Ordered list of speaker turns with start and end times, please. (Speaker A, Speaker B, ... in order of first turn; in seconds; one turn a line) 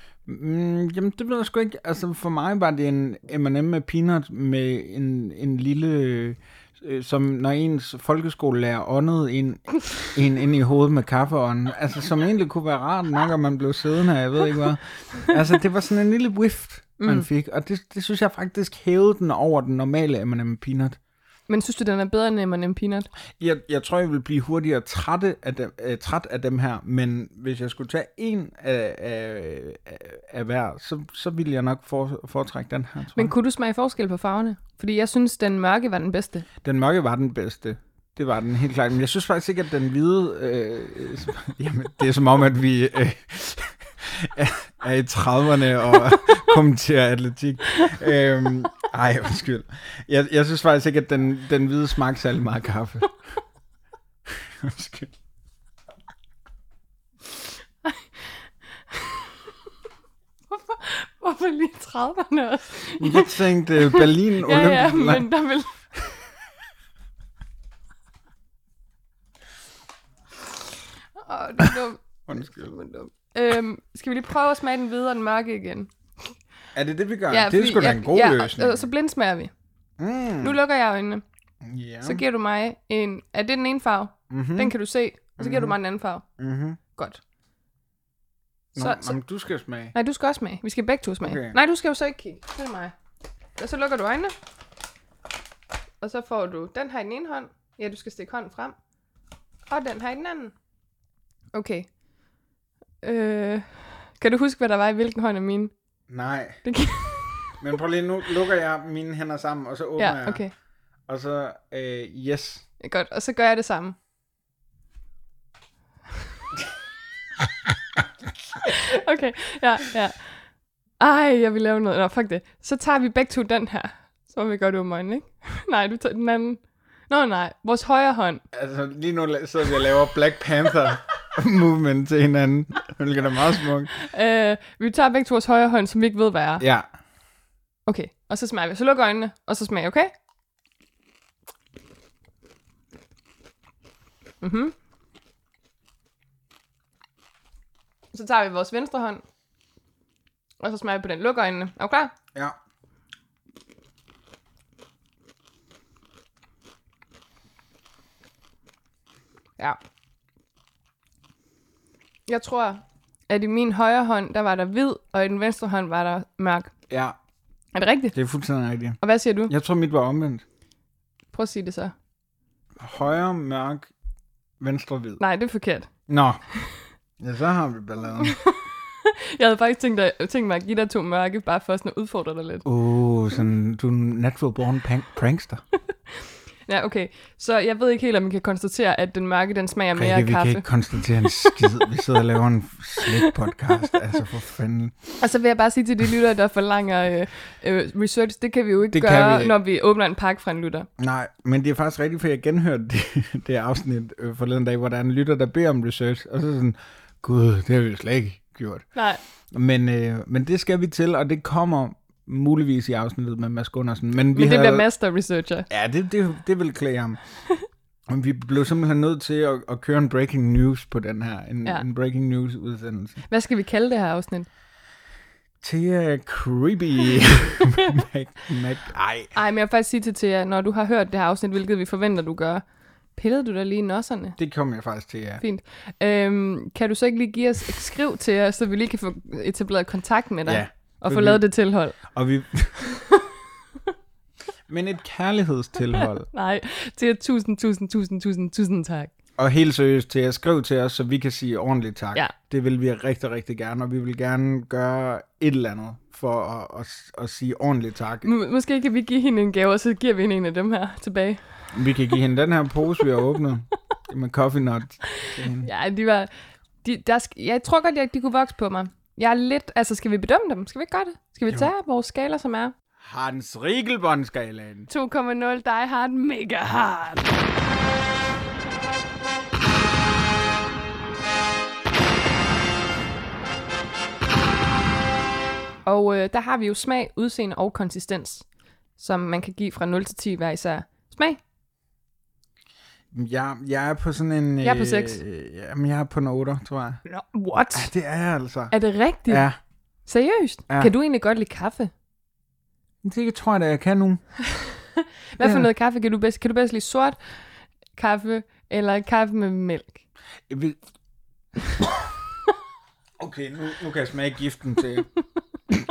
Speaker A: 0.3-21.0
Speaker B: 17.0-17.3
Speaker B: 21.5-23.1
Speaker A: 23.4-33.3
Speaker B: 33.1-36.5
Speaker A: 36.6-53.1
Speaker A: 54.3-55.1
Speaker B: 58.9-59.3
Speaker B: 60.5-65.7
Speaker A: 63.0-65.3
Speaker B: 71.2-76.3
Speaker A: 72.3-72.8
Speaker A: 76.7-78.9
Speaker B: 77.3-79.5
Speaker A: 80.0-80.6
Speaker B: 80.4-81.2
Speaker A: 81.6-82.2
Speaker B: 82.0-86.2
Speaker A: 84.3-84.7
Speaker A: 85.4-85.8
Speaker A: 86.4-86.8
Speaker B: 87.0-87.2
Speaker A: 88.8-90.0
Speaker B: 88.8-89.2
Speaker B: 89.9-92.9
Speaker A: 91.2-91.6
Speaker B: 93.6-94.3
Speaker B: 96.0-98.8
Speaker B: 99.7-100.5
Speaker B: 101.5-101.9
Speaker B: 103.0-105.7
Speaker A: 106.1-106.6
Speaker B: 106.6-107.5
Speaker A: 107.6-110.4
Speaker B: 110.0-110.5
Speaker A: 111.1-112.7
Speaker B: 112.8-114.0
Speaker B: 118.7-120.3
Speaker B: 121.0-128.4
Speaker A: 128.5-133.9
Speaker B: 133.9-136.6
Speaker A: 136.6-136.9
Speaker B: 137.9-140.1
Speaker B: 144.4-144.7
Speaker B: 148.1-149.2
Speaker B: 150.6-152.1
Speaker B: 162.3-166.7
Speaker A: 166.9-167.2
Speaker B: 167.7-168.2
Speaker A: 168.1-170.4
Speaker B: 169.0-169.5
Speaker B: 171.3-171.9
Speaker A: 172.8-173.9
Speaker A: 174.6-175.2
Speaker B: 175.2-175.9
Speaker A: 176.1-176.4
Speaker A: 177.2-178.4
Speaker B: 178.2-182.7
Speaker A: 182.7-185.6
Speaker B: 186.7-190.7
Speaker A: 189.9-195.2
Speaker B: 191.3-191.5
Speaker B: 193.1-193.3
Speaker B: 195.2-200.9
Speaker A: 198.9-199.6
Speaker A: 201.0-208.8
Speaker B: 208.9-209.2
Speaker A: 209.5-214.9
Speaker B: 214.3-215.7
Speaker A: 215.7-217.2
Speaker A: 218.1-223.2
Speaker B: 223.3-224.5
Speaker A: 225.6-229.3
Speaker B: 229.3-232.6
Speaker B: 233.2-234.4
Speaker A: 234.4-235.4
Speaker B: 235.4-242.0
Speaker A: 240.5-241.4
Speaker A: 242.0-243.0
Speaker A: 244.7-246.3
Speaker B: 246.3-249.1
Speaker A: 249.4-258.3
Speaker B: 258.2-261.6
Speaker A: 261.7-265.7
Speaker B: 265.2-266.3
Speaker B: 266.8-272.7
Speaker A: 273.0-274.9
Speaker B: 274.9-277.4
Speaker B: 285.9-288.4
Speaker B: 289.0-291.4
Speaker A: 293.1-297.0
Speaker B: 294.6-295.2
Speaker B: 297.1-297.9
Speaker A: 297.7-298.7
Speaker B: 298.7-299.5
Speaker A: 299.3-299.6
Speaker B: 300.1-301.9
Speaker A: 303.0-304.2
Speaker B: 305.3-307.2
Speaker A: 305.4-305.7
Speaker B: 308.0-310.0
Speaker A: 310.5-310.8
Speaker A: 313.2-315.1